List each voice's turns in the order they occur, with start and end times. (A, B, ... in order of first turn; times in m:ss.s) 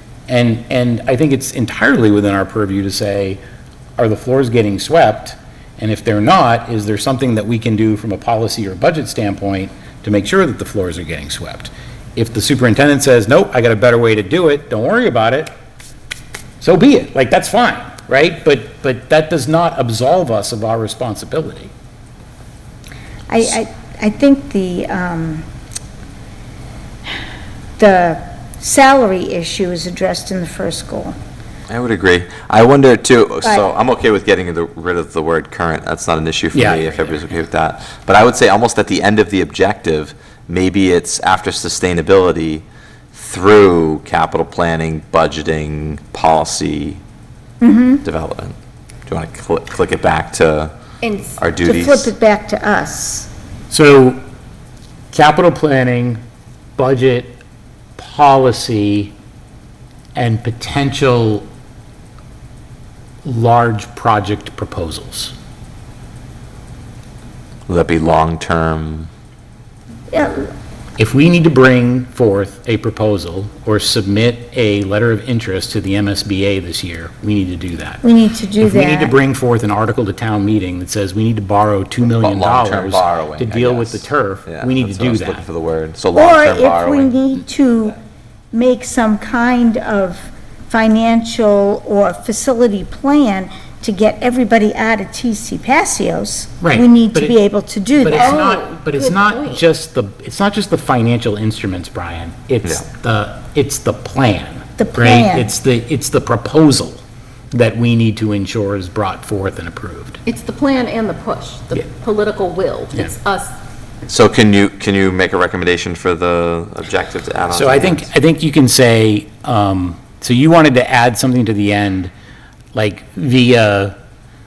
0:00.3-0:03.4 A
0:04.0-0:15.5 A
0:16.6-0:21.7 A
0:23.3-0:25.4 B
0:27.8-0:31.1 B
0:31.7-0:47.0 C
0:36.5-0:37.3 A
0:47.6-0:48.0 B
0:48.0-0:48.6 C
0:49.1-0:50.7 C
0:51.0-0:51.4 D
0:51.4-0:52.1 C
0:51.6-0:53.3 B
0:53.7-0:54.2 A
0:55.1-0:56.2 A
0:56.8-0:57.4 A
0:58.0-0:59.1 A
1:00.2-1:01.4 A
1:03.2-1:05.3 A
1:07.7-1:09.1 C
1:10.1-1:10.5 B
1:11.0-1:18.0 A
1:18.0-1:19.1 B
1:18.6-1:25.4 A
1:22.2-1:27.1 C
1:26.1-1:28.0 B
1:28.5-1:38.4 B
1:36.6-1:37.4 A
1:38.0-1:47.0 A
1:38.1-1:39.6 D
1:44.8-1:45.5 B
1:47.5-1:50.2 A
1:50.2-1:53.5 D
1:54.1-1:58.1 C
1:57.5-2:02.1 A
2:02.7-2:03.9 A